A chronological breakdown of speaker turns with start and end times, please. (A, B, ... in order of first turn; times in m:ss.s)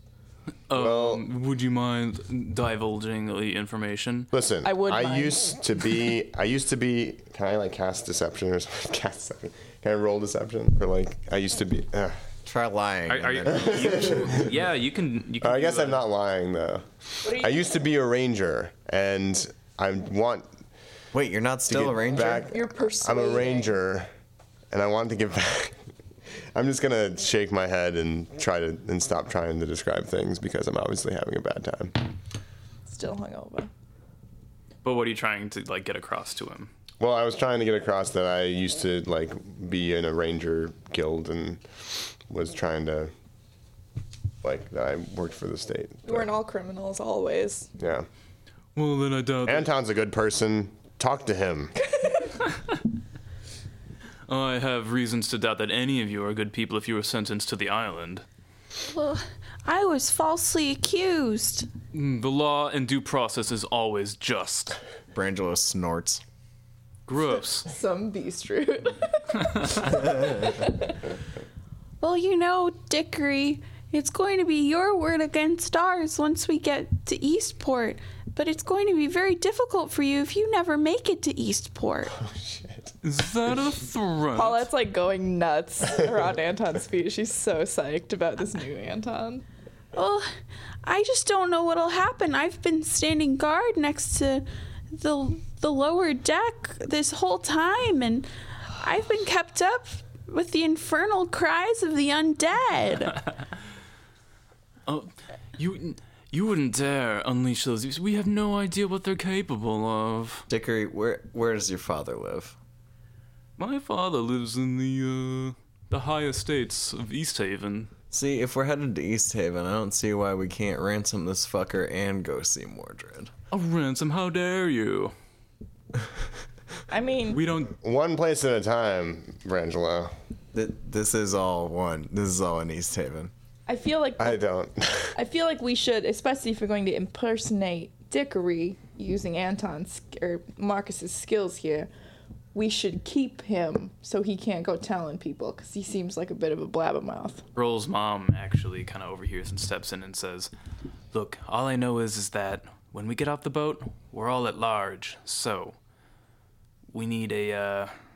0:00.7-0:04.3 A
0:00.7-0:01.2 B
0:04.3-0:12.2 B
0:04.6-0:05.4 C
0:12.4-0:14.4 D
0:13.1-0:16.0 A
0:13.5-0:14.5 B
0:15.4-0:20.5 B
0:21.1-0:22.5 D
0:21.7-0:24.1 B
0:22.1-0:23.7 C
0:24.7-0:25.8 B
0:26.5-0:31.9 B
0:32.9-0:33.7 C
0:34.8-0:36.7 A
0:37.0-0:43.1 B
0:44.4-0:46.3 B
0:46.0-0:47.7 C
0:47.8-0:48.1 B
0:48.8-0:49.7 A
0:49.4-0:51.7 B
0:52.0-0:52.3 C
0:54.3-0:58.2 A
0:58.8-1:01.7 E
1:01.9-1:04.8 A
1:05.1-1:06.2 D
1:07.1-1:07.7 A
1:07.7-1:10.8 C
1:12.0-1:22.1 E
1:22.1-1:22.9 B
1:23.0-1:24.7 A
1:24.3-1:29.4 C
1:29.9-1:30.3 E
1:30.8-1:43.2 E
1:44.8-1:50.4 A
1:50.5-1:52.6 D
1:53.6-1:57.9 A
1:58.1-2:03.3 D
2:03.5-2:05.1 A
2:06.9-2:07.4 C
2:07.3-2:07.7 A
2:07.8-2:10.1 B
2:10.5-2:13.3 D
2:13.7-2:14.4 C
2:14.2-2:15.1 B
2:15.1-2:21.9 C
2:22.5-2:27.4 C
2:27.5-2:30.5 A
2:31.1-2:35.7 A
2:36.9-2:37.9 A